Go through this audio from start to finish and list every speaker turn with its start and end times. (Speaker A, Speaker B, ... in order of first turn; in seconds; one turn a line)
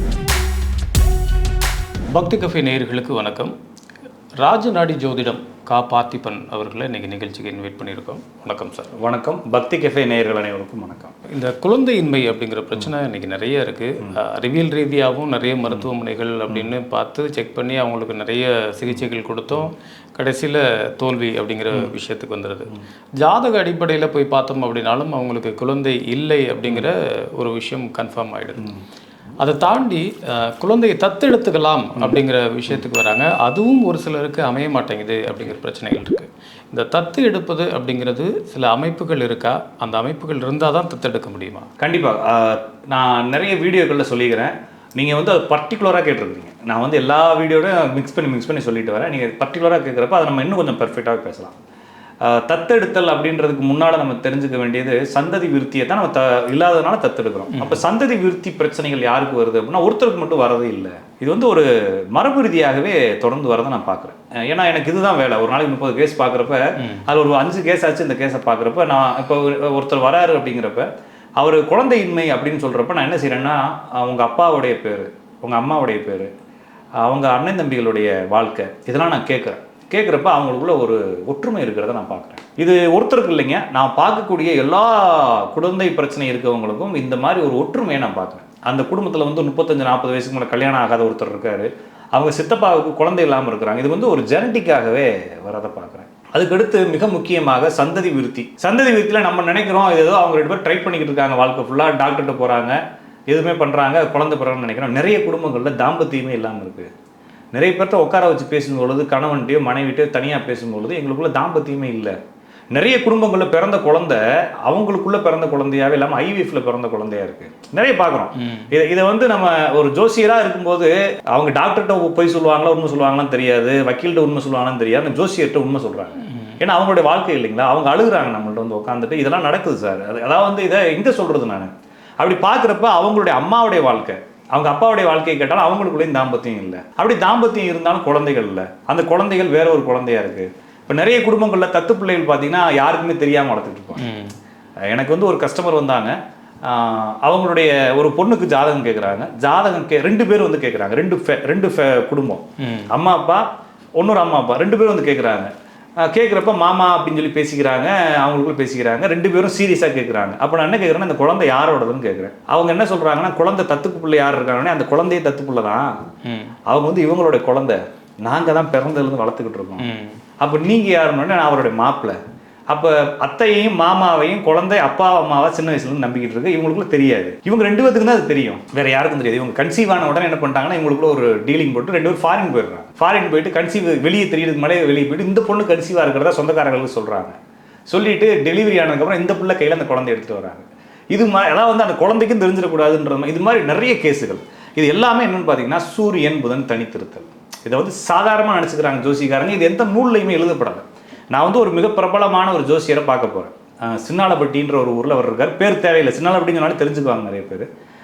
Speaker A: 2.1-3.5
Speaker A: 4.4-8.9
Speaker B: 9.0-11.1
Speaker A: 11.3-28.7
Speaker A: 29.4-41.7
Speaker B: 41.8-51.5
Speaker B: 52.2-70.9
Speaker A: 57.5-57.8
Speaker B: 71.4-76.3
Speaker B: 77.0-106.9
Speaker B: 107.5-112.2
Speaker B: 112.7-144.0
Speaker A: 126.3-126.6
Speaker A: 144.0-144.3
Speaker B: 144.9-153.4
Speaker A: 152.6-152.9
Speaker B: 154.0-165.9
Speaker A: 166.2-166.6
Speaker B: 166.7-169.9
Speaker A: 169.8-170.2
Speaker B: 170.4-172.2
Speaker B: 172.7-187.3
Speaker B: 187.9-207.7